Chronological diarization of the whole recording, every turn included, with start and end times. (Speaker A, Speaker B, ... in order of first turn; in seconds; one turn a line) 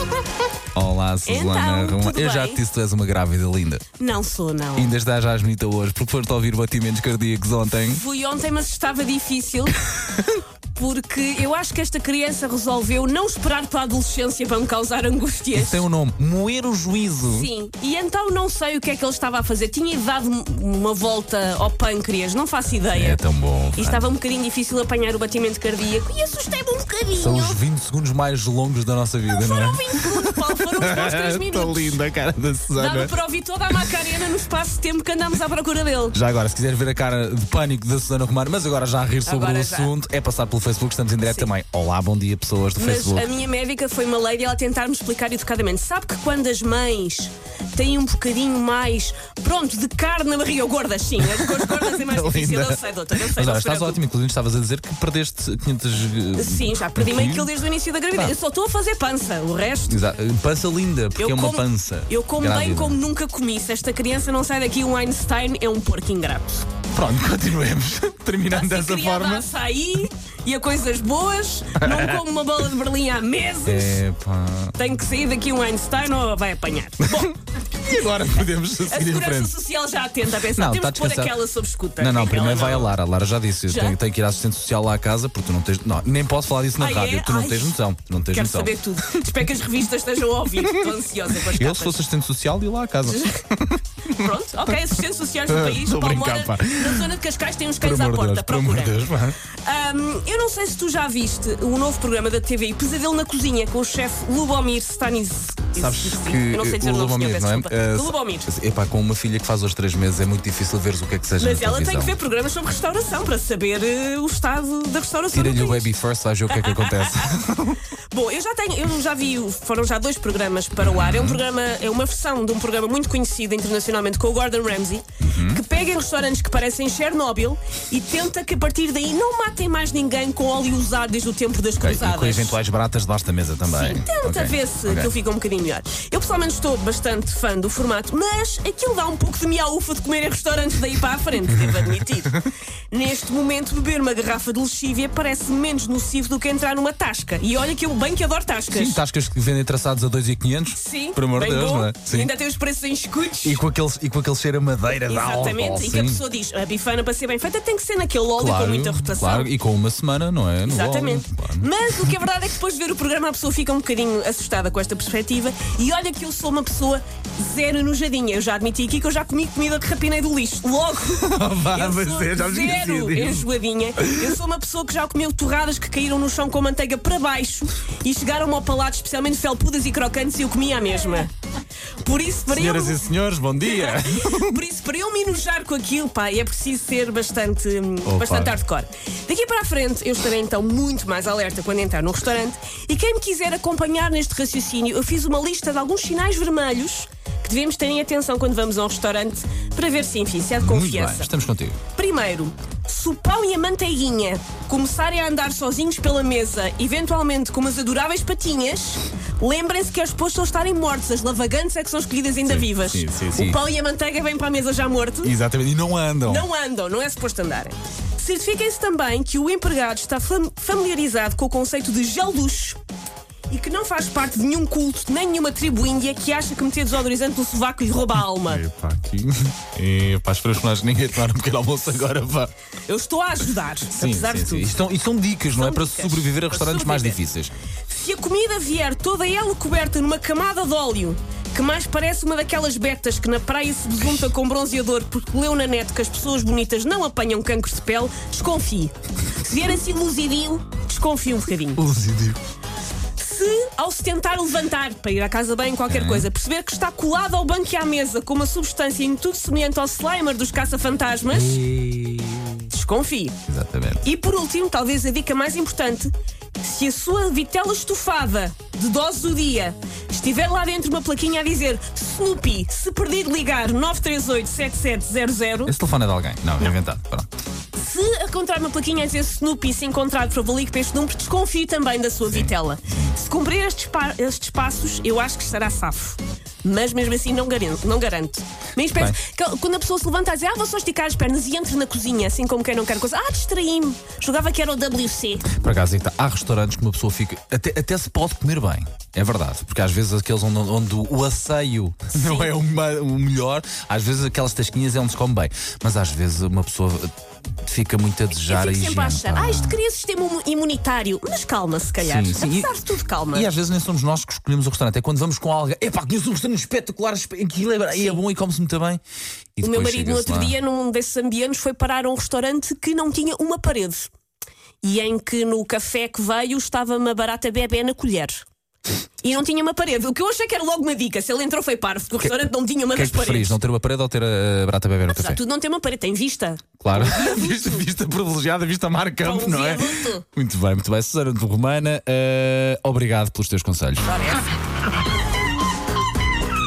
Speaker A: 0.7-3.8
Speaker B: 1.2-2.6
Speaker B: 4.0-4.9
Speaker A: 4.8-8.0
Speaker B: 7.9-9.8
Speaker B: 10.7-15.8
Speaker A: 15.5-17.5
Speaker B: 17.3-23.2
Speaker A: 22.9-24.1
Speaker B: 23.8-27.6
Speaker A: 27.2-33.1
Speaker B: 29.3-32.0
Speaker B: 32.7-36.1
Speaker A: 36.1-43.3
Speaker B: 39.2-39.9
Speaker B: 41.2-41.5
Speaker B: 42.8-54.0
Speaker A: 51.2-57.5
Speaker B: 56.4-60.0
Speaker A: 59.9-63.0
Speaker B: 61.1-66.7
Speaker A: 66.9-69.5
Speaker B: 68.5-74.0
Speaker A: 71.8-72.2
Speaker A: 73.6-74.7
Speaker B: 74.8-77.4
Speaker A: 77.8-79.5
Speaker B: 78.8-83.0
Speaker A: 80.5-81.3
Speaker A: 82.0-89.2
Speaker B: 83.7-84.0
Speaker B: 86.8-87.8
Speaker B: 88.3-92.0
Speaker A: 90.6-90.9
Speaker A: 91.5-94.3
Speaker B: 93.0-93.5
Speaker B: 94.1-99.1
Speaker A: 95.5-97.1
Speaker A: 97.8-99.4
Speaker B: 99.6-108.5
Speaker A: 105.8-112.2
Speaker B: 111.4-115.9
Speaker A: 115.3-117.9
Speaker B: 116.5-117.3
Speaker B: 118.1-132.6
Speaker A: 120.8-121.4
Speaker A: 125.2-125.6
Speaker A: 131.8-135.1
Speaker B: 133.7-149.0
Speaker A: 148.7-152.3
Speaker B: 150.7-153.6
Speaker A: 153.4-156.2
Speaker B: 155.0-159.5
Speaker A: 158.4-161.7
Speaker B: 160.6-181.3
Speaker A: 171.1-173.5
Speaker A: 174.0-174.3
Speaker B: 182.0-183.0
Speaker A: 182.5-184.6
Speaker B: 183.6-201.3
Speaker A: 188.0-188.6
Speaker A: 200.6-201.8
Speaker B: 201.9-215.3
Speaker A: 212.4-213.6
Speaker A: 215.2-216.5
Speaker B: 216.2-222.8
Speaker B: 223.5-228.6
Speaker A: 228.4-232.5
Speaker B: 232.9-234.8
Speaker A: 233.9-237.5
Speaker B: 235.5-237.2
Speaker B: 237.9-251.8
Speaker A: 251.8-252.4
Speaker B: 253.2-261.6
Speaker A: 255.9-256.3
Speaker A: 261.3-262.7
Speaker B: 262.7-263.4
Speaker A: 263.5-264.0
Speaker B: 264.0-275.7
Speaker A: 275.6-277.3
Speaker B: 277.8-295.5
Speaker A: 282.2-283.1
Speaker A: 288.9-289.2
Speaker A: 295.5-307.1
Speaker B: 302.1-302.5
Speaker A: 307.6-309.8
Speaker B: 308.5-313.5
Speaker A: 312.0-312.7
Speaker A: 313.3-319.0
Speaker B: 317.9-318.2
Speaker A: 319.6-320.5
Speaker B: 319.6-324.1
Speaker B: 324.8-328.4
Speaker B: 329.2-333.6
Speaker A: 332.9-335.4
Speaker B: 335.1-337.8
Speaker A: 336.8-344.2
Speaker B: 339.2-340.2
Speaker B: 344.0-344.5